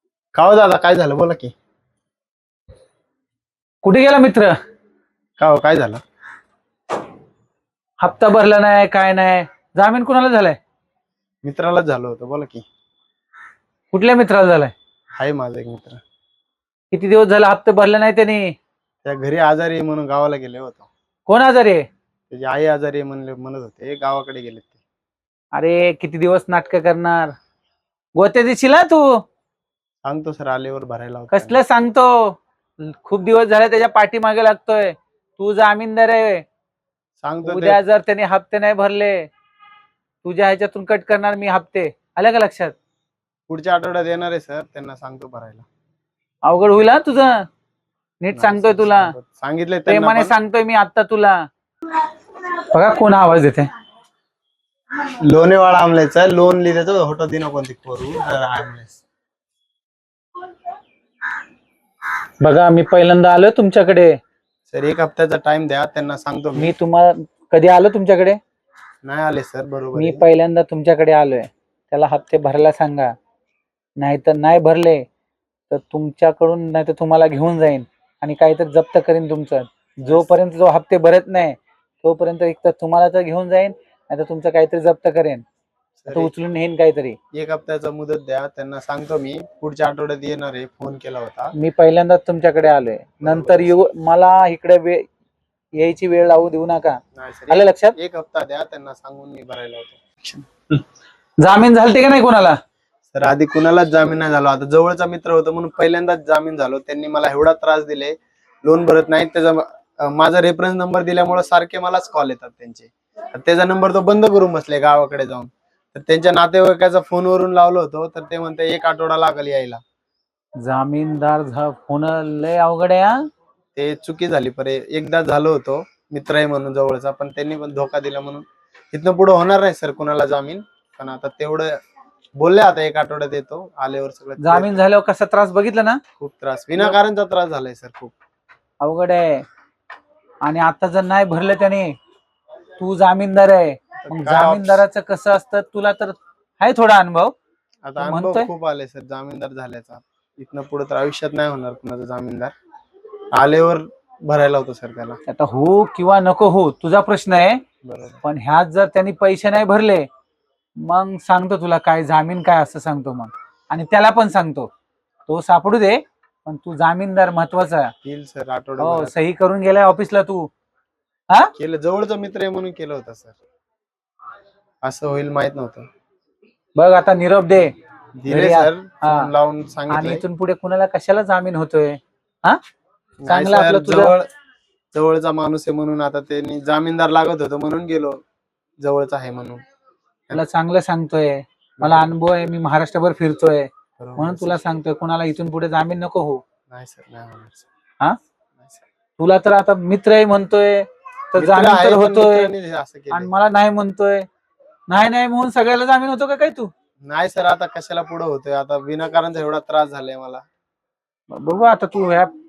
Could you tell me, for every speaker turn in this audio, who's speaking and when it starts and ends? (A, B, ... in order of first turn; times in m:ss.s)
0:00.3-0:01.5 A
0:03.8-0:04.5 B
0:05.4-0:06.0 A
0:08.0-0:10.6 B
0:11.4-0:12.6 A
0:13.9-0:14.7 B
0:15.2-0:16.0 A
0:16.9-0:18.5 B
0:19.0-0:20.9 A
0:21.3-0:21.8 B
0:22.3-0:24.8 A
0:25.5-0:27.3 B
0:28.2-0:29.2 B
0:30.0-0:31.6 A
0:31.3-0:36.4 B
0:37.2-0:37.8 A
0:37.4-0:39.3 B
0:40.2-0:42.7 B
0:43.5-0:45.6 A
0:46.4-0:47.4 B
0:48.2-0:49.1 B
0:48.3-0:50.4 A
0:49.9-0:51.4 B
0:52.7-0:53.7 B
0:55.2-0:59.0 A
1:02.4-1:04.2 B
1:04.7-1:06.7 A
1:06.6-1:08.4 B
1:09.0-1:10.3 A
1:10.0-1:13.1 B
1:14.0-1:15.0 B
1:15.7-1:25.4 B
1:20.0-1:20.3 A
1:26.0-1:26.3 A
1:26.1-1:27.2 B
1:27.3-1:31.5 A
1:31.5-1:35.0 B
1:33.2-1:33.9 A
1:35.8-1:37.9 B
1:37.1-1:40.4 A
1:41.4-1:42.6 B
1:43.1-1:59.8 A
2:00.6-2:03.2 B
2:03.7-2:11.8 A
2:12.4-2:14.8 A
2:14.4-2:16.0 B
2:16.2-2:18.1 A
2:18.8-2:19.4 B
2:20.4-2:21.9 B
2:22.8-2:27.3 B
2:24.0-2:24.8 A
2:27.8-2:32.5 A
2:28.0-2:28.5 B
2:33.3-2:35.2 A
2:35.3-2:37.6 B
2:37.8-2:38.2 A
2:38.2-2:40.0 B
2:40.8-2:44.7 B
2:45.3-2:47.9 B
2:48.0-2:49.1 A
2:48.8-2:50.5 B
2:51.6-2:53.4 A
2:54.8-2:55.9 A
2:56.8-2:57.7 B
2:58.2-3:00.2 A
2:58.3-2:59.3 B
2:59.9-3:02.6 B
3:03.2-3:04.3 A
3:03.3-3:04.1 B
3:04.9-3:08.2 A
3:08.8-3:09.6 A
3:10.3-3:16.4 B
3:11.8-3:12.1 A
3:14.0-3:14.6 A
3:16.7-3:17.6 A
3:19.2-3:22.5 B
3:21.4-3:23.3 A
3:23.1-3:24.2 B
3:24.9-3:26.7 B
3:27.0-3:30.4 A
3:31.3-3:32.3 B